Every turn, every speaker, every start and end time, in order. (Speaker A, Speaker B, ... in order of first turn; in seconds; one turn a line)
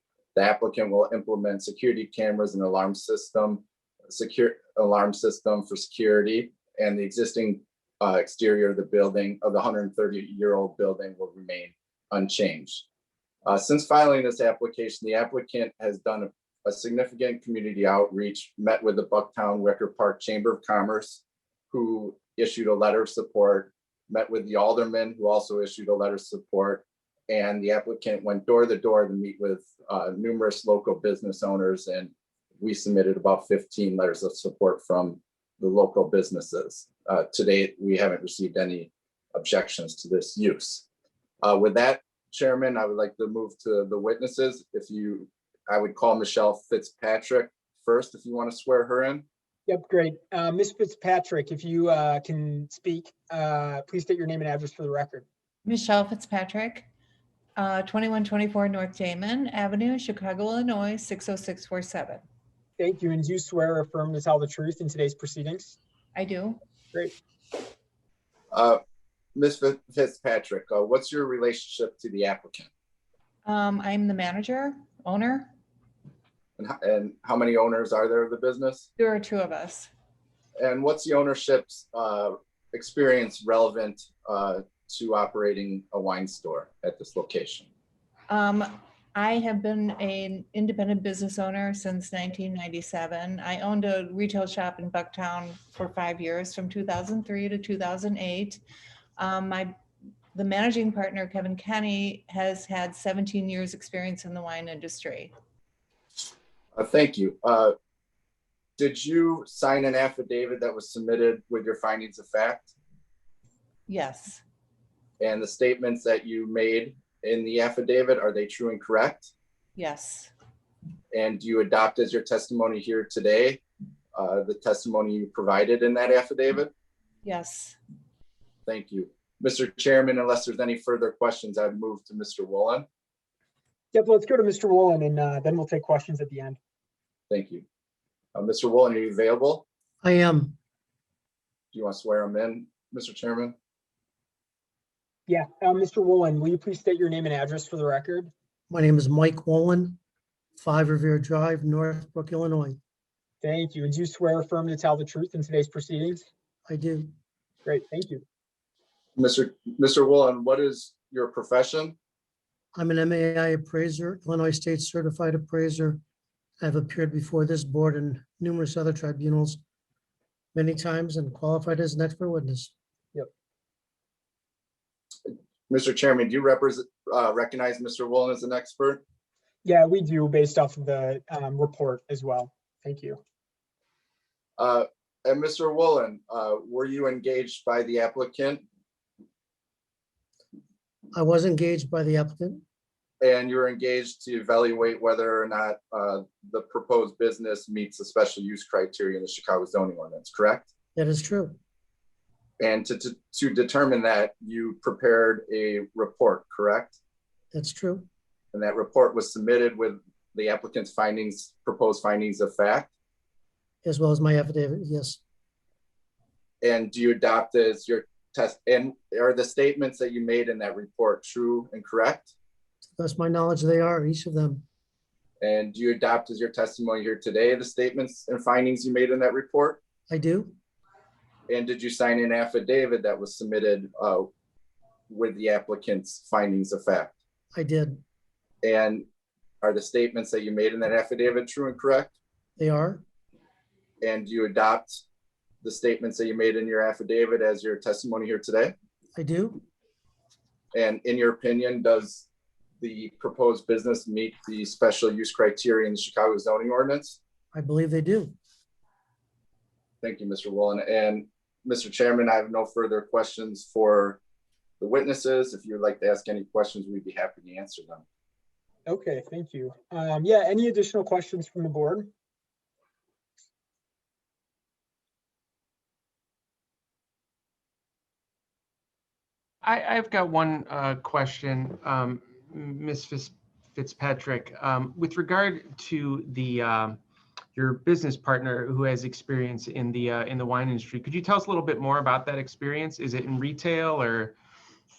Speaker A: 0.3-12.9
Speaker A: 13.4-40.9
Speaker A: 41.4-49.2
Speaker B: 49.7-55.2
Speaker C: 55.7-56.9
Speaker C: 57.6-62.2
Speaker B: 62.8-65.8
Speaker C: 66.2-66.6
Speaker A: 68.5-68.8
Speaker A: 69.3-72.7
Speaker C: 73.5-75.5
Speaker A: 76.6-78.9
Speaker C: 79.0-79.9
Speaker A: 80.6-87.7
Speaker C: 88.3-98.6
Speaker C: 99.2-99.7
Speaker C: 100.3-105.3
Speaker A: 106.8-107.7
Speaker A: 108.8-112.7
Speaker C: 113.9-114.4
Speaker A: 115.2-119.3
Speaker C: 119.8-120.3
Speaker A: 121.1-123.6
Speaker A: 124.2-126.7
Speaker C: 127.2-127.8
Speaker A: 128.7-132.9
Speaker B: 133.9-136.6
Speaker A: 137.3-137.7
Speaker A: 138.3-139.7
Speaker D: 140.0-140.6
Speaker A: 141.7-143.6
Speaker B: 145.3-148.3
Speaker D: 148.7-150.0
Speaker D: 150.6-152.8
Speaker B: 153.4-156.3
Speaker D: 156.7-157.1
Speaker B: 157.7-158.2
Speaker A: 159.2-162.0
Speaker D: 162.7-166.0
Speaker D: 166.6-169.6
Speaker D: 170.5-172.7
Speaker A: 175.3-179.0
Speaker B: 179.6-183.2
Speaker A: 184.6-188.6
Speaker D: 191.1-192.6
Speaker A: 193.2-200.7
Speaker D: 200.9-201.6
Speaker A: 202.6-207.0
Speaker D: 207.5-208.1
Speaker A: 208.5-212.9
Speaker D: 213.8-215.2
Speaker A: 216.6-222.3
Speaker D: 223.0-224.6
Speaker A: 225.4-229.8
Speaker D: 230.1-230.5
Speaker A: 231.5-234.3
Speaker A: 235.1-237.2
Speaker D: 237.5-238.0
Speaker A: 238.6-239.1
Speaker A: 239.6-242.2
Speaker D: 242.6-243.0
Speaker A: 244.0-245.0
Speaker A: 245.6-248.7
Speaker D: 249.2-249.6
Speaker A: 250.7-252.3
Speaker A: 252.8-257.2
Speaker D: 257.5-258.3
Speaker A: 260.0-264.2
Speaker A: 264.8-268.0
Speaker B: 268.9-272.1
Speaker E: 279.6-287.0
Speaker E: 287.6-294.3